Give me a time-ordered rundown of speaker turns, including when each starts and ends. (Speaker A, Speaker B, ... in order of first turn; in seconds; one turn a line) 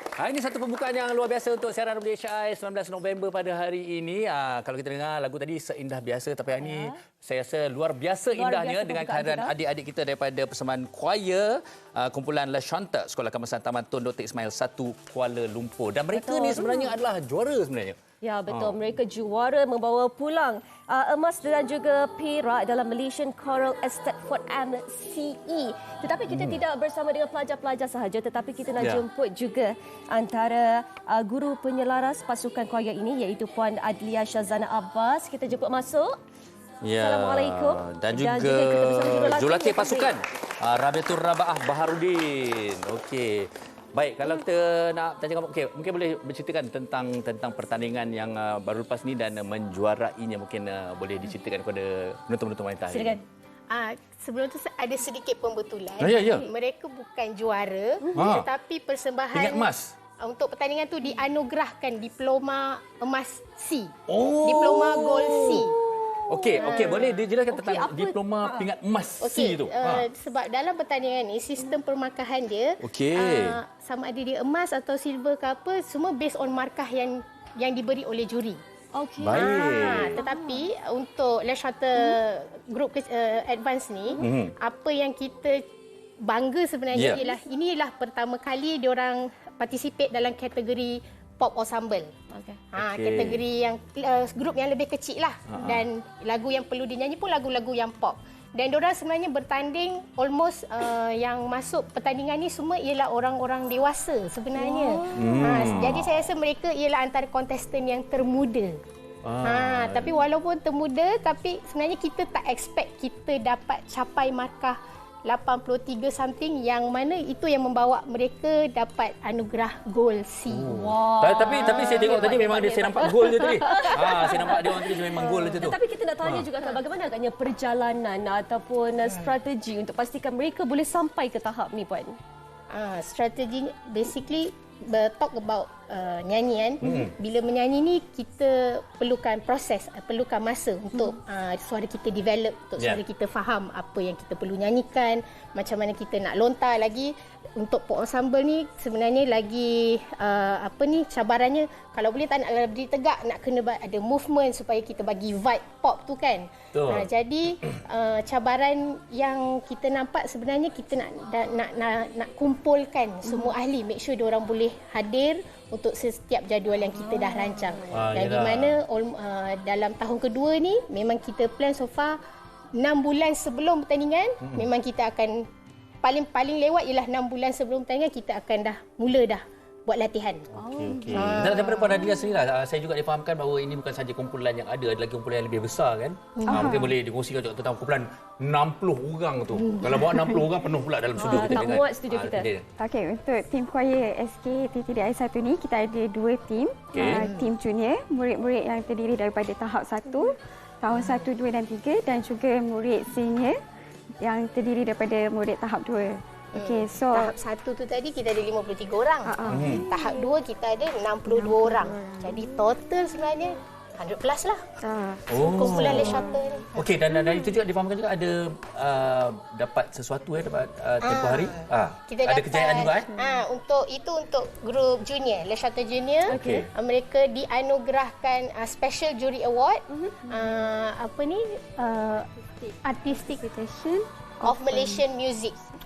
Speaker A: 0.2-18.0
Speaker B: 6.6-7.0
Speaker B: 8.3-9.5
Speaker B: 16.1-16.9
Speaker B: 18.2-36.1
Speaker A: 18.5-18.8
Speaker A: 26.3-26.6
Speaker A: 28.8-29.0
Speaker A: 36.8-53.2
Speaker B: 36.9-40.1
Speaker B: 52.9-53.2
Speaker C: 53.7-59.7
Speaker A: 56.0-56.4
Speaker A: 58.1-58.5
Speaker A: 59.3-59.9
Speaker C: 60.2-65.7
Speaker A: 64.1-65.7
Speaker A: 66.3-70.1
Speaker C: 66.6-67.2
Speaker B: 67.5-68.7
Speaker C: 69.2-78.6
Speaker A: 72.8-73.6
Speaker B: 78.9-80.6
Speaker A: 79.2-80.2
Speaker C: 79.3-85.6
Speaker A: 84.2-84.5
Speaker C: 86.2-92.1
Speaker A: 86.9-87.2
Speaker B: 92.3-92.6
Speaker C: 92.7-108.8
Speaker A: 92.8-93.4
Speaker A: 95.5-95.8
Speaker B: 104.6-105.1
Speaker A: 105.1-106.1
Speaker A: 109.2-110.2
Speaker C: 109.4-120.7
Speaker A: 120.5-126.5
Speaker B: 120.7-132.2
Speaker C: 121.5-123.1
Speaker C: 132.7-172.2
Speaker A: 136.8-137.1
Speaker A: 156.7-157.1
Speaker B: 163.2-163.5
Speaker B: 167.0-167.4
Speaker A: 167.9-168.8
Speaker C: 172.8-175.4
Speaker A: 174.4-174.7
Speaker C: 176.0-180.5
Speaker A: 180.6-192.6
Speaker B: 180.6-181.3
Speaker C: 181.1-182.1
Speaker C: 186.3-186.8
Speaker D: 186.4-186.9
Speaker C: 189.5-190.4
Speaker B: 191.2-192.5
Speaker D: 192.8-203.6
Speaker A: 196.9-197.3
Speaker C: 197.0-197.5
Speaker D: 204.2-207.3
Speaker C: 206.5-214.6
Speaker D: 209.2-210.3
Speaker A: 209.5-209.9
Speaker D: 211.2-212.5
Speaker D: 214.8-216.3
Speaker A: 215.3-216.2
Speaker C: 215.4-216.9
Speaker A: 216.8-223.1
Speaker C: 221.0-232.3
Speaker A: 226.3-226.7
Speaker B: 226.3-226.7
Speaker B: 229.9-230.2
Speaker C: 232.8-233.5
Speaker D: 233.3-234.9
Speaker C: 234.4-235.5